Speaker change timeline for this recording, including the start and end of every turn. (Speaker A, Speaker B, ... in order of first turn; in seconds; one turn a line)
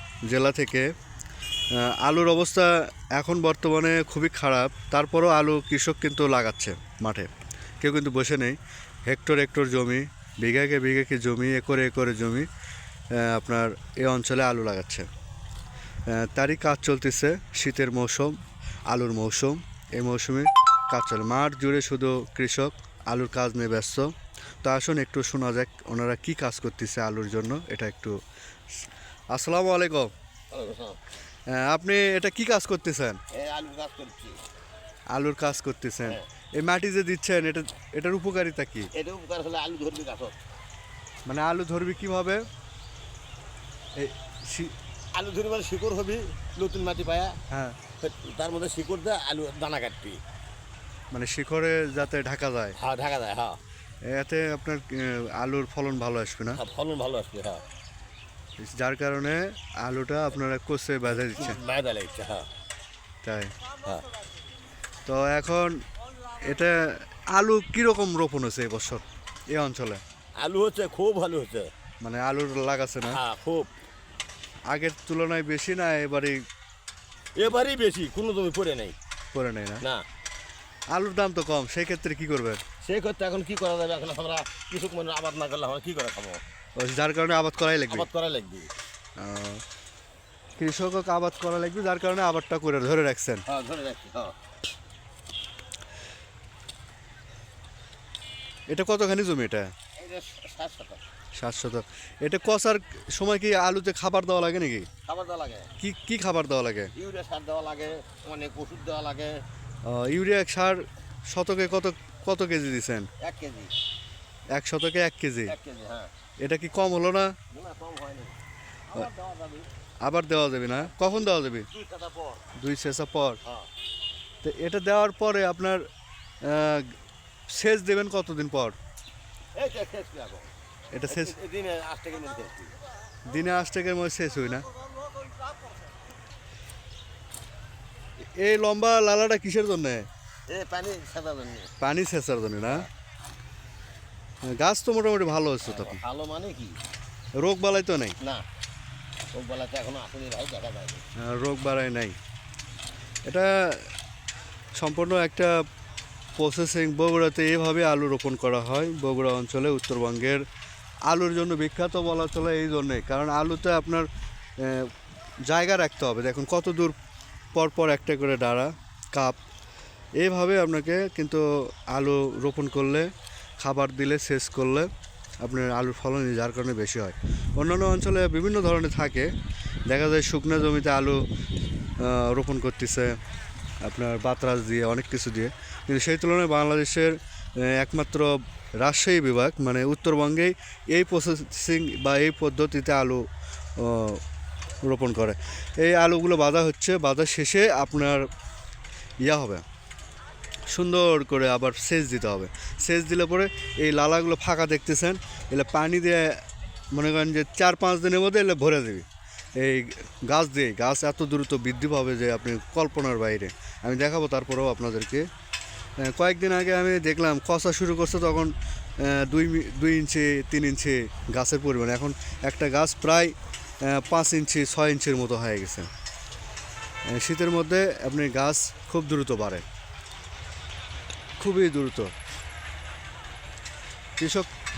Speaker A: 0.3-0.8
Speaker A: 1.7-7.3
Speaker A: 7.8-12.5
Speaker A: 13.1-15.1
Speaker A: 16.1-18.4
Speaker A: 18.9-24.1
Speaker A: 24.6-28.1
Speaker A: 29.3-30.1
Speaker B: 30.5-31.0
Speaker A: 31.5-33.2
Speaker B: 33.3-34.4
Speaker A: 35.1-38.9
Speaker B: 38.9-40.4
Speaker A: 41.2-42.4
Speaker A: 44.0-44.7
Speaker B: 45.1-47.4
Speaker A: 47.5-47.8
Speaker B: 48.0-50.2
Speaker A: 51.1-52.8
Speaker B: 52.8-53.6
Speaker A: 54.0-56.6
Speaker B: 56.5-57.6
Speaker A: 58.6-61.6
Speaker B: 61.1-62.5
Speaker A: 63.2-63.5
Speaker A: 65.0-65.8
Speaker A: 66.3-70.0
Speaker B: 70.4-71.7
Speaker A: 72.0-73.2
Speaker B: 73.1-73.7
Speaker A: 74.7-76.4
Speaker B: 77.4-79.0
Speaker A: 79.3-79.8
Speaker A: 80.9-82.6
Speaker B: 82.8-86.4
Speaker A: 86.8-88.1
Speaker B: 87.9-88.7
Speaker A: 89.2-89.6
Speaker A: 90.6-93.4
Speaker B: 93.5-94.3
Speaker A: 98.7-99.7
Speaker B: 100.0-101.0
Speaker A: 101.3-104.9
Speaker B: 105.1-105.7
Speaker A: 105.8-106.9
Speaker B: 106.9-109.4
Speaker A: 109.8-113.1
Speaker B: 113.2-113.7
Speaker A: 114.5-115.5
Speaker B: 115.5-116.1
Speaker A: 116.4-117.3
Speaker B: 117.5-118.3
Speaker B: 118.9-119.7
Speaker A: 120.0-121.7
Speaker B: 120.8-121.2
Speaker B: 121.7-122.5
Speaker A: 122.6-123.4
Speaker A: 124.4-125.8
Speaker A: 126.4-126.9
Speaker A: 127.5-128.8
Speaker B: 129.5-130.5
Speaker A: 130.9-131.3
Speaker B: 131.1-132.7
Speaker A: 133.2-134.7
Speaker B: 135.0-135.7
Speaker A: 138.4-140.1
Speaker B: 140.5-141.7
Speaker A: 141.8-142.9
Speaker A: 144.4-146.0
Speaker B: 145.6-146.8
Speaker A: 147.4-148.2
Speaker B: 149.3-151.0
Speaker A: 151.2-152.2
Speaker A: 153.2-153.9
Speaker A: 154.7-155.5
Speaker A: 156.4-160.4
Speaker A: 161.1-164.9
Speaker A: 165.4-166.9
Speaker A: 167.5-169.4
Speaker A: 170.2-173.1
Speaker A: 173.6-174.9
Speaker A: 175.4-179.3
Speaker A: 179.9-181.2
Speaker A: 182.0-183.2
Speaker A: 183.8-193.2
Speaker A: 193.8-194.2
Speaker A: 194.8-198.3
Speaker A: 199.2-199.6
Speaker A: 200.7-209.0
Speaker A: 209.6-215.2
Speaker A: 216.0-225.9
Speaker A: 227.1-229.6
Speaker A: 231.4-232.1
Speaker A: 234.2-234.5